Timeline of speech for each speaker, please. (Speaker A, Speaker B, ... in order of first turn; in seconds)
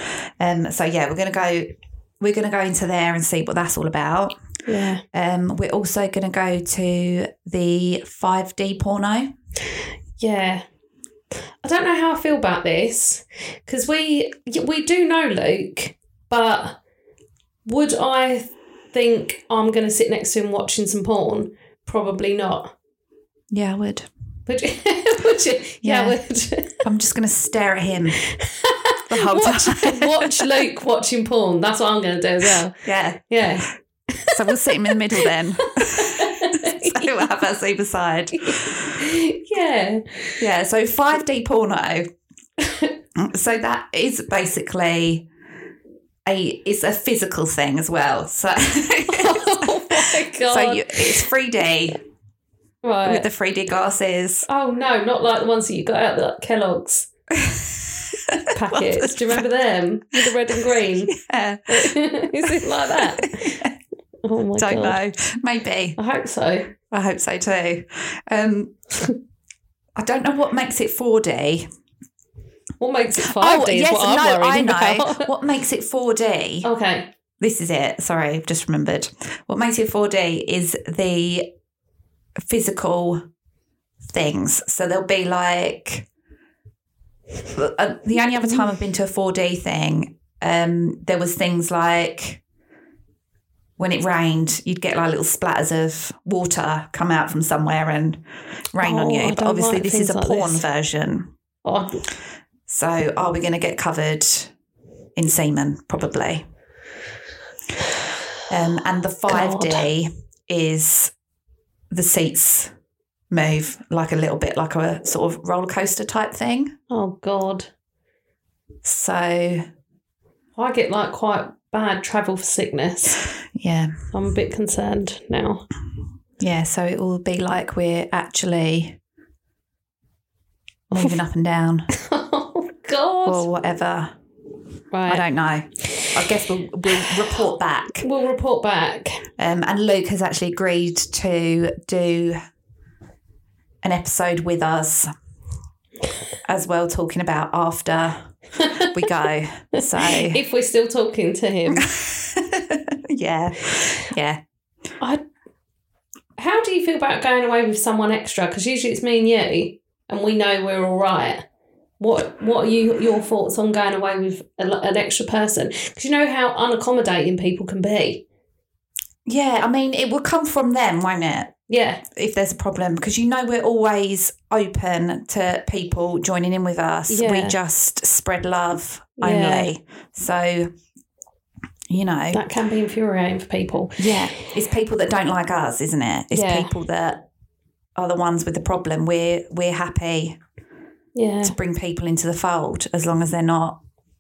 Speaker A: 0.1-4.4, 5.1-9.3, 23.5-24.1, 25.8-26.2, 26.8-28.2, 29.1-30.5, 32.8-33.2, 34.3-39.0, 40.4-42.1, 43.1-45.3, 46.2-52.0, 53.0-54.5, 57.3-59.5, 60.2-63.7, 64.6-66.0, 66.9-68.8, 70.0-71.7, 73.2-76.7, 77.4-81.5, 82.4-83.2, 84.1-86.1, 87.5-92.4, 93.8-101.3, 102.7-104.5, 105.2-106.4, 108.5-111.1, 111.9-112.7, 113.3-116.8, 118.8-119.7, 123.5-124.0, 126.4-129.0, 130.9-131.9, 133.2-134.1, 135.1-138.1, 139.4-142.4, 143.8-145.1, 146.4-150.4, 151.7-154.4, 169.2-171.5, 172.1-180.7, 181.9-182.4, 184.0-187.2, 187.9-190.4, 191.4-193.8
Speaker B: 4.7-5.0, 10.2-10.6, 11.6-16.8, 17.6-22.7, 24.5-26.8, 28.4-34.6, 35.3-37.2, 38.4-40.4, 42.6-42.9, 49.1-51.3, 52.8-53.2, 54.5-57.1, 58.4-61.2, 61.7-63.6, 64.2-65.0, 66.0-66.7, 72.8-75.3, 76.6-77.1, 98.8-100.7, 101.6-102.0, 109.3-109.9, 116.9-117.7, 120.5-123.2, 124.1-125.7, 130.9-131.2, 131.9-133.5, 134.9-135.2, 138.0-139.2, 148.6-148.9, 149.8-151.9, 156.4-161.4, 162.0-168.2, 171.7-172.0, 177.1-177.6, 179.2-179.7, 182.3-184.3, 186.3-186.7, 191.1-191.6